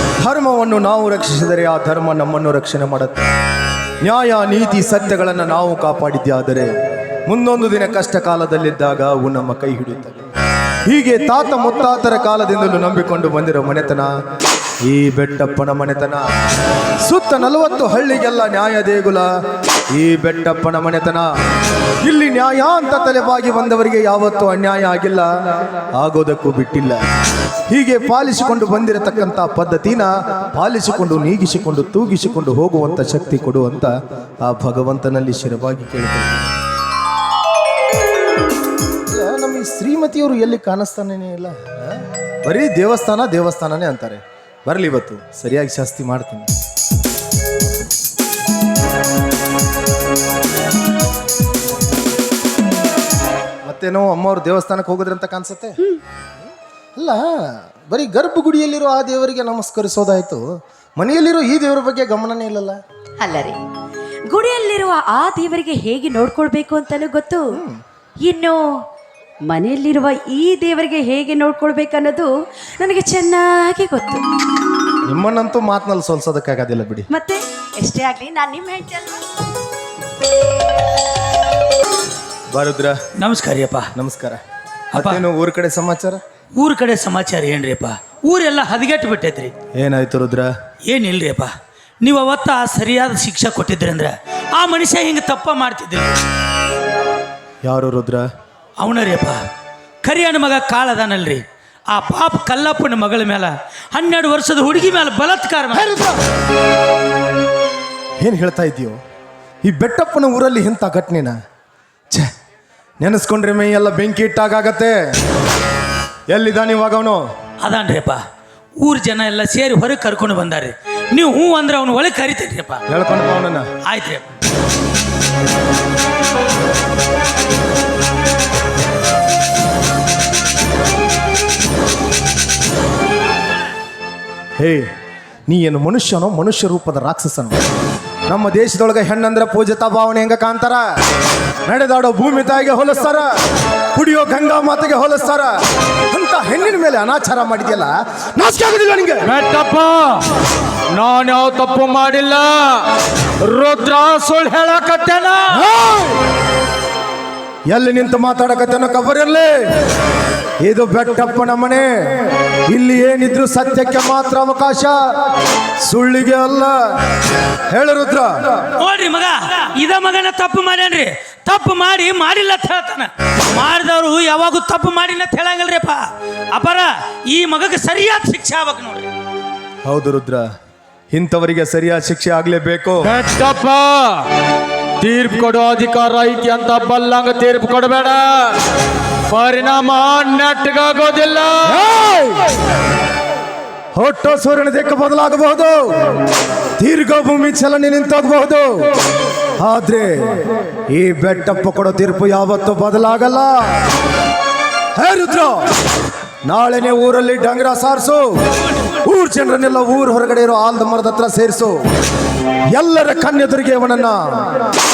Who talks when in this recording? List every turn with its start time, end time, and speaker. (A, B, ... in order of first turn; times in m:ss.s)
0:00.2-0:03.2 A
0:04.0-0:06.7 A
0:07.3-0:10.2 A
0:10.9-0:14.1 A
0:14.8-0:16.2 A
0:17.0-0:19.3 A
0:19.9-0:21.2 A
0:22.0-0:25.3 A
0:26.0-0:27.0 A
0:27.7-0:36.6 A
0:39.1-0:46.5 A
0:53.6-0:55.8 A
0:57.0-0:57.4 A
0:57.9-1:00.4 A
1:01.0-1:02.8 A
1:03.2-1:03.6 B
1:04.3-1:07.6 B
1:07.5-1:07.8 A
1:08.2-1:08.8 B
1:09.5-1:14.2 B
1:15.1-1:17.1 A
1:17.1-1:19.2 B
1:22.5-1:23.0 A
1:23.2-1:23.9 C
1:24.0-1:24.4 A
1:24.9-1:26.2 A
1:25.0-1:25.2 C
1:26.6-1:29.5 C
1:29.8-1:30.5 A
1:30.9-1:31.5 C
1:32.0-1:36.2 C
1:37.6-1:38.2 A
1:38.8-1:39.4 C
1:40.0-1:46.0 C
1:45.7-1:46.2 A
1:48.2-1:49.0 A
1:49.6-1:51.4 A
1:53.0-1:55.0 A
1:56.3-1:57.2 A
1:57.6-1:58.2 C
1:58.8-2:02.8 C
2:02.9-2:03.6 A
2:03.9-2:04.2 C
2:14.6-2:14.9 A
2:15.5-2:17.6 A
2:18.3-2:20.8 A
2:21.7-2:23.3 A
2:23.9-2:25.5 A
2:26.1-2:29.3 A
2:29.3-2:30.2 D
2:30.9-2:32.8 D
2:33.4-2:35.6 D
2:35.6-2:36.2 A
2:37.7-2:39.6 A
2:40.6-2:45.0 A
2:45.8-2:46.7 A
2:47.7-2:48.6 A
2:48.8-2:56.0 C
2:56.5-2:59.1 C
2:59.9-3:00.4 A
3:01.1-3:03.1 A
3:03.0-3:04.3 D
3:05.0-3:08.6 D
3:09.3-3:12.0 D
3:13.9-3:15.8 A
3:16.8-3:18.9 A
3:19.6-3:23.6 A
3:25.0-3:25.6 A
3:26.4-3:28.2 A
3:29.0-3:31.7 A
3:32.7-3:34.6 A